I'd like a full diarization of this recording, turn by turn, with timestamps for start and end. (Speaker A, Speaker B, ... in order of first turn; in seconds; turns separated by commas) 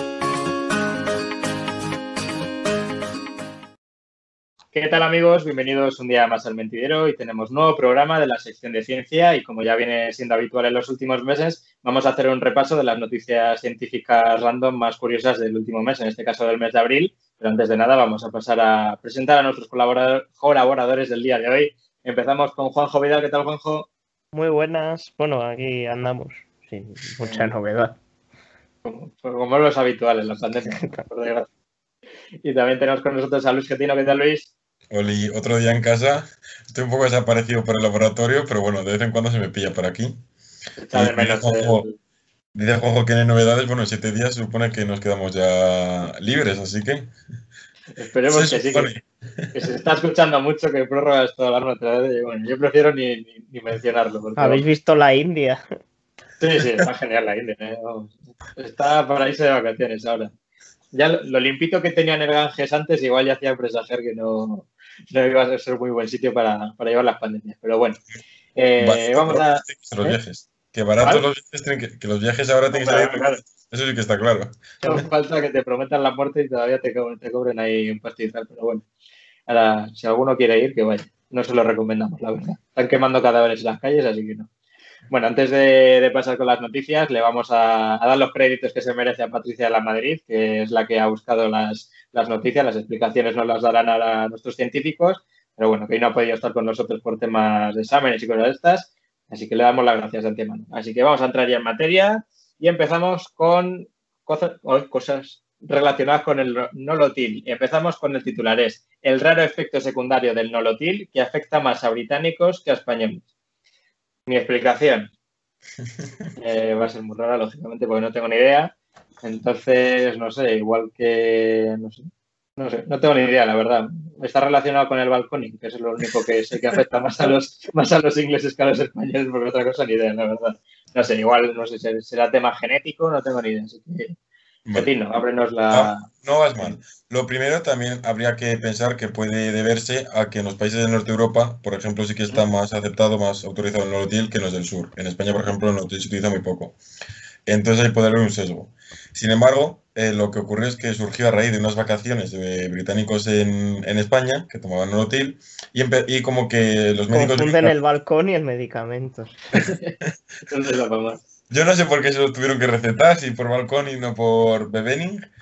Speaker A: 4.7-23.9, Speaker B: 24.3-28.0, Speaker A: 27.2-27.5, Speaker A: 28.9-31.5, Speaker B: 30.8-31.1, Speaker A: 32.4-34.5, Speaker C: 34.9-40.2, Speaker A: 40.8-42.0, Speaker C: 40.9-41.8, Speaker C: 42.5-47.1, Speaker A: 48.0-48.9, Speaker C: 48.3-49.6, Speaker A: 49.5-54.6, Speaker B: 54.4-55.6, Speaker A: 56.4-60.3, Speaker A: 60.9-68.0, Speaker A: 68.6-70.2, Speaker C: 68.8-75.1, Speaker A: 72.7-73.4, Speaker A: 74.8-78.8, Speaker A: 79.5-84.5, Speaker A: 85.1-113.3, Speaker A: 114.3-115.1, Speaker A: 116.4-134.2, Speaker C: 134.7-134.9, Speaker A: 134.7-136.1, Speaker C: 135.7-146.8, Speaker C: 147.5-157.7, Speaker B: 157.1-159.3, Speaker A: 159.6-160.0, Speaker A: 160.5-161.2, Speaker C: 161.5-165.3